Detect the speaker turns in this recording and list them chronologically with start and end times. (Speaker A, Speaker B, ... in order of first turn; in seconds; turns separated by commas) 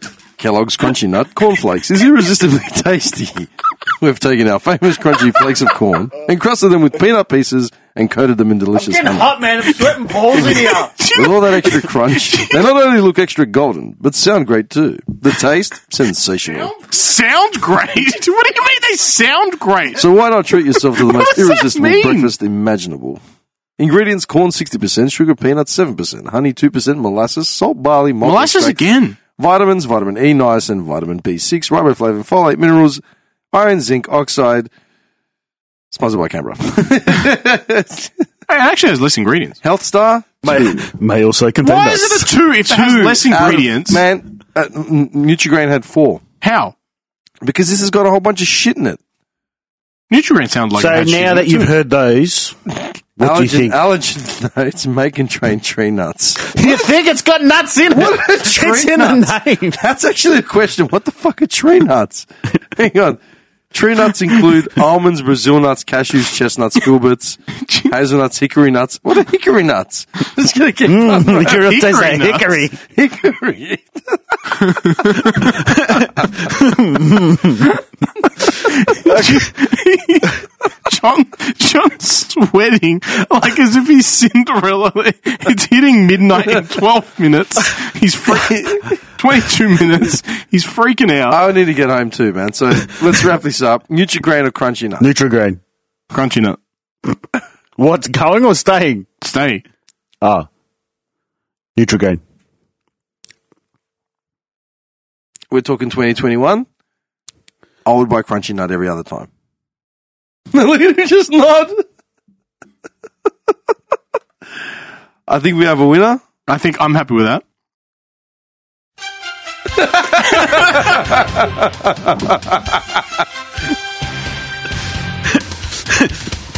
Speaker A: 0.4-9.3, Speaker B: 8.7-10.9, Speaker C: 10.3-12.6, Speaker A: 11.1-16.7, Speaker C: 16.6-20.1, Speaker A: 19.9-23.2, Speaker C: 20.7-22.3, Speaker A: 23.8-28.8, Speaker C: 28.2-29.2, Speaker A: 29.4-34.7, Speaker A: 35.9-38.2, Speaker C: 38.5-39.6, Speaker A: 39.6-40.8, Speaker B: 40.5-42.3, Speaker C: 41.6-44.0, Speaker A: 42.7-46.2, Speaker C: 46.4-46.7, Speaker A: 47.4-49.0, Speaker C: 50.1-51.7, Speaker B: 50.7-52.5, Speaker B: 53.2-53.8, Speaker A: 53.2-56.5, Speaker B: 56.4-59.8, Speaker A: 57.9-71.7, Speaker C: 67.6-67.9, Speaker B: 70.8-72.8, Speaker C: 71.5-72.6, Speaker A: 72.9-74.9, Speaker C: 74.6-75.7, Speaker B: 75.3-77.7, Speaker C: 78.4-91.4, Speaker A: 79.0-79.4, Speaker A: 88.3-89.0, Speaker A: 91.3-95.1, Speaker B: 95.0-95.6, Speaker C: 96.1-96.6, Speaker B: 97.8-99.1, Speaker C: 99.2-99.6, Speaker B: 100.2-100.5, Speaker B: 101.8-102.2, Speaker A: 105.5-106.7, Speaker A: 107.8-109.3, Speaker A: 110.5-111.8, Speaker A: 115.3-116.3, Speaker C: 116.5-117.4, Speaker A: 119.7-123.0, Speaker B: 125.9-126.1